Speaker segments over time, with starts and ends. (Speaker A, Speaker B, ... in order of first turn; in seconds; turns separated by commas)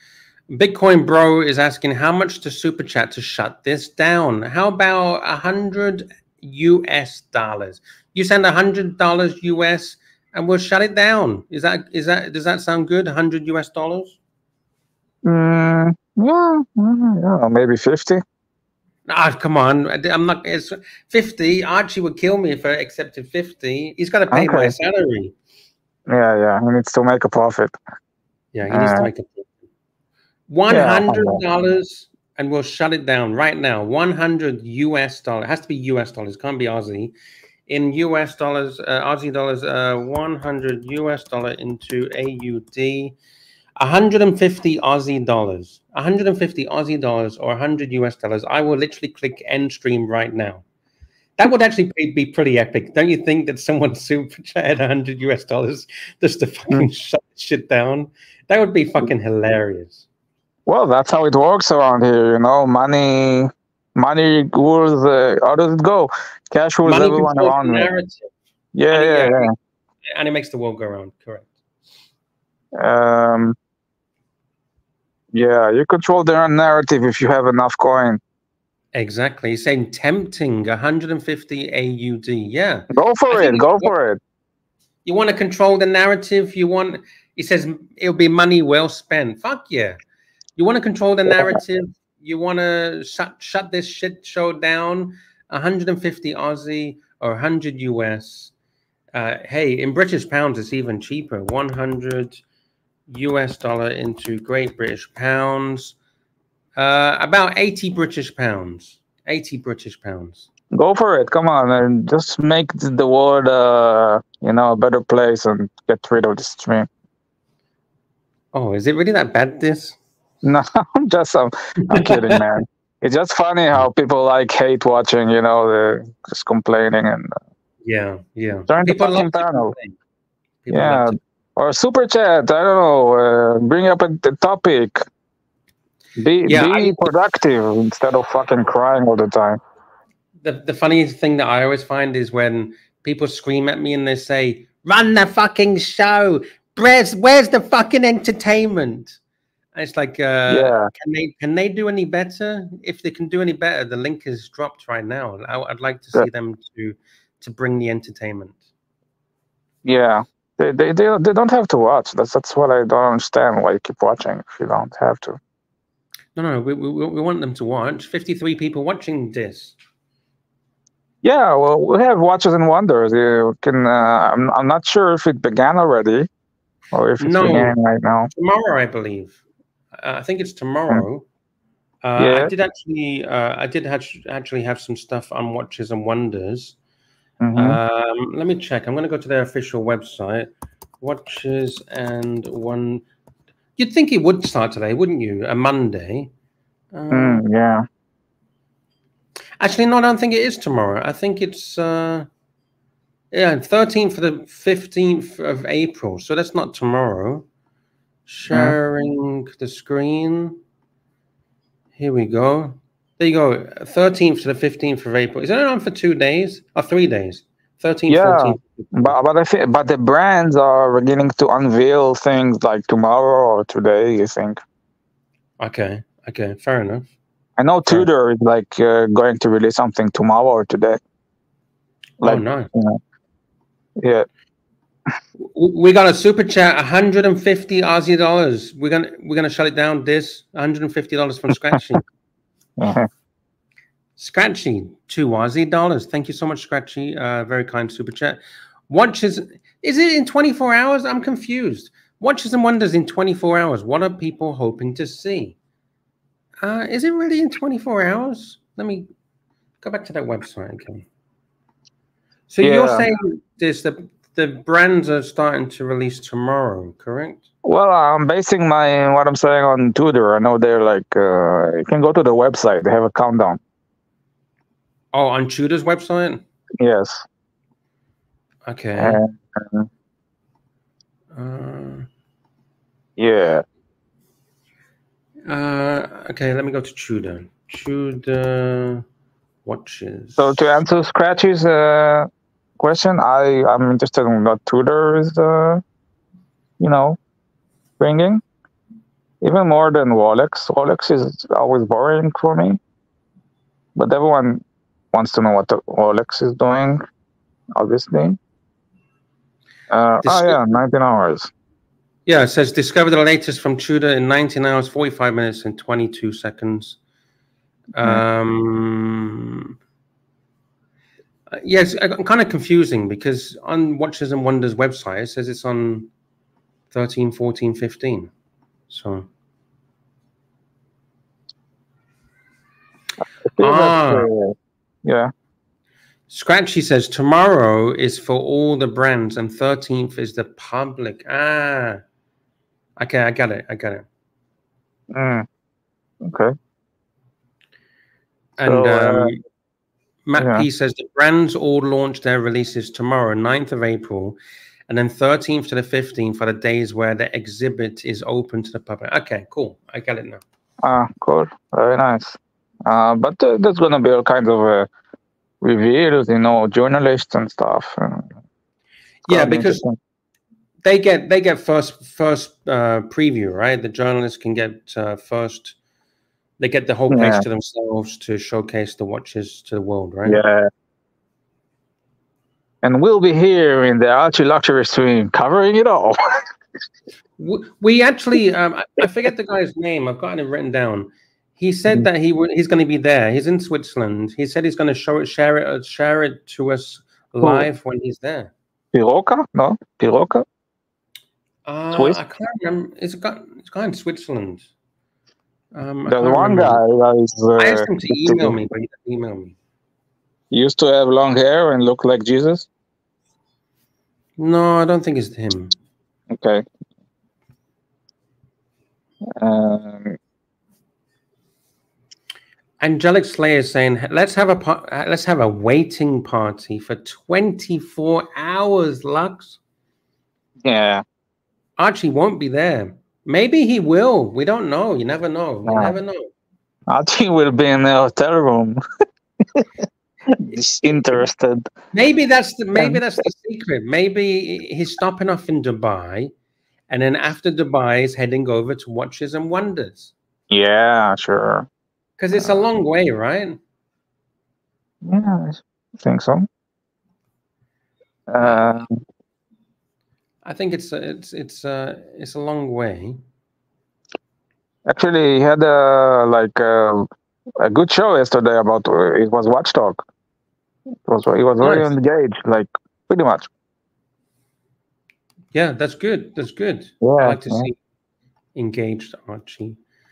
Speaker A: 0.5-14.2, Speaker B: 15.2-18.2, Speaker A: 19.1-25.3, Speaker B: 24.3-24.8, Speaker B: 26.1-27.8, Speaker A: 28.5-29.5, Speaker B: 28.7-29.1, Speaker A: 30.5-37.1, Speaker B: 30.7-31.4, Speaker A: 37.7-43.1, Speaker A: 43.8-50.6, Speaker A: 51.4-60.0, Speaker B: 60.6-67.9, Speaker A: 66.8-68.3, Speaker B: 68.7-69.5, Speaker A: 68.9-69.5, Speaker A: 70.1-71.5, Speaker B: 72.7-73.5, Speaker B: 75.3-78.2, Speaker A: 78.9-83.9, Speaker B: 82.9-84.2, Speaker A: 85.0-90.0, Speaker A: 90.6-98.5, Speaker A: 99.1-102.4, Speaker A: 103.1-105.9, Speaker A: 106.8-110.5, Speaker B: 110.7-116.9, Speaker A: 118.5-120.0, Speaker B: 120.4-127.4, Speaker A: 121.9-122.4, Speaker A: 127.8-130.0, Speaker B: 128.7-129.7, Speaker A: 130.6-131.2, Speaker B: 130.7-135.0, Speaker B: 136.2-139.6, Speaker A: 136.4-137.0, Speaker A: 140.4-149.2, Speaker A: 149.7-158.6, Speaker B: 150.5-150.9, Speaker B: 159.8-165.4, Speaker A: 166.3-169.8, Speaker B: 171.2-176.3, Speaker B: 176.9-178.3, Speaker A: 177.2-177.8, Speaker A: 178.3-179.4, Speaker A: 180.0-181.2, Speaker A: 182.0-186.8, Speaker B: 182.2-182.5, Speaker B: 187.4-187.8, Speaker A: 187.5-193.0, Speaker A: 193.8-196.3, Speaker A: 196.9-197.4, Speaker B: 197.1-197.8, Speaker A: 199.6-202.3, Speaker A: 203.3-207.4, Speaker A: 208.3-210.6, Speaker B: 208.5-208.8, Speaker A: 212.0-219.1, Speaker B: 218.1-224.6, Speaker A: 225.6-227.1, Speaker B: 227.6-231.0, Speaker B: 232.2-233.0, Speaker A: 232.2-232.7, Speaker B: 234.0-234.3, Speaker A: 235.4-242.0, Speaker B: 242.8-243.1, Speaker A: 244.2-255.6, Speaker A: 256.6-259.1, Speaker A: 259.8-261.0, Speaker A: 262.5-267.4, Speaker B: 262.6-263.1, Speaker B: 267.6-273.6, Speaker A: 275.1-276.4, Speaker B: 276.8-277.2, Speaker A: 278.6-279.2, Speaker B: 278.9-279.9, Speaker A: 281.3-282.1, Speaker B: 283.2-283.6, Speaker A: 285.5-289.0, Speaker A: 289.6-290.7, Speaker B: 290.4-295.8, Speaker B: 296.8-297.2, Speaker B: 298.0-298.4, Speaker B: 299.4-302.8, Speaker B: 303.9-307.0, Speaker B: 307.7-308.4, Speaker B: 309.9-311.5, Speaker A: 310.2-310.6, Speaker A: 312.2-317.0, Speaker A: 317.9-319.7, Speaker A: 321.5-326.1, Speaker A: 326.9-328.3, Speaker A: 328.9-329.3, Speaker B: 333.5-335.3, Speaker A: 333.6-334.3, Speaker A: 336.3-342.0, Speaker A: 343.0-344.1, Speaker B: 345.1-345.4, Speaker B: 346.2-346.5, Speaker A: 348.6-349.4, Speaker B: 348.6-349.3, Speaker A: 350.3-360.4, Speaker B: 350.4-350.7, Speaker B: 360.8-364.9, Speaker B: 365.6-368.3, Speaker A: 369.3-369.8, Speaker B: 369.3-370.0, Speaker A: 370.8-375.8, Speaker A: 376.6-380.4, Speaker B: 377.1-377.4, Speaker B: 380.2-380.7, Speaker B: 382.8-386.4, Speaker A: 387.4-398.5, Speaker B: 397.4-397.7, Speaker B: 398.9-400.4, Speaker A: 401.6-404.7, Speaker B: 401.9-402.2, Speaker A: 405.7-406.8, Speaker B: 406.1-408.6, Speaker A: 407.6-409.5, Speaker B: 410.5-412.7, Speaker A: 414.4-415.8, Speaker B: 416.3-416.6, Speaker B: 419.3-420.2, Speaker A: 422.8-429.6, Speaker B: 430.6-431.0, Speaker A: 431.8-436.3, Speaker B: 435.7-436.0, Speaker B: 436.9-438.8, Speaker B: 440.4-441.7, Speaker A: 441.9-446.3, Speaker B: 442.7-443.1, Speaker A: 446.9-450.1, Speaker B: 450.5-451.7, Speaker A: 452.2-453.6, Speaker B: 452.3-452.7, Speaker B: 455.0-456.5, Speaker B: 458.3-459.0, Speaker A: 458.4-458.7, Speaker A: 460.4-463.2, Speaker B: 464.9-467.1, Speaker B: 467.6-470.0, Speaker B: 471.0-473.5, Speaker A: 471.6-471.9, Speaker A: 475.5-477.8, Speaker B: 477.0-477.7, Speaker A: 478.5-479.8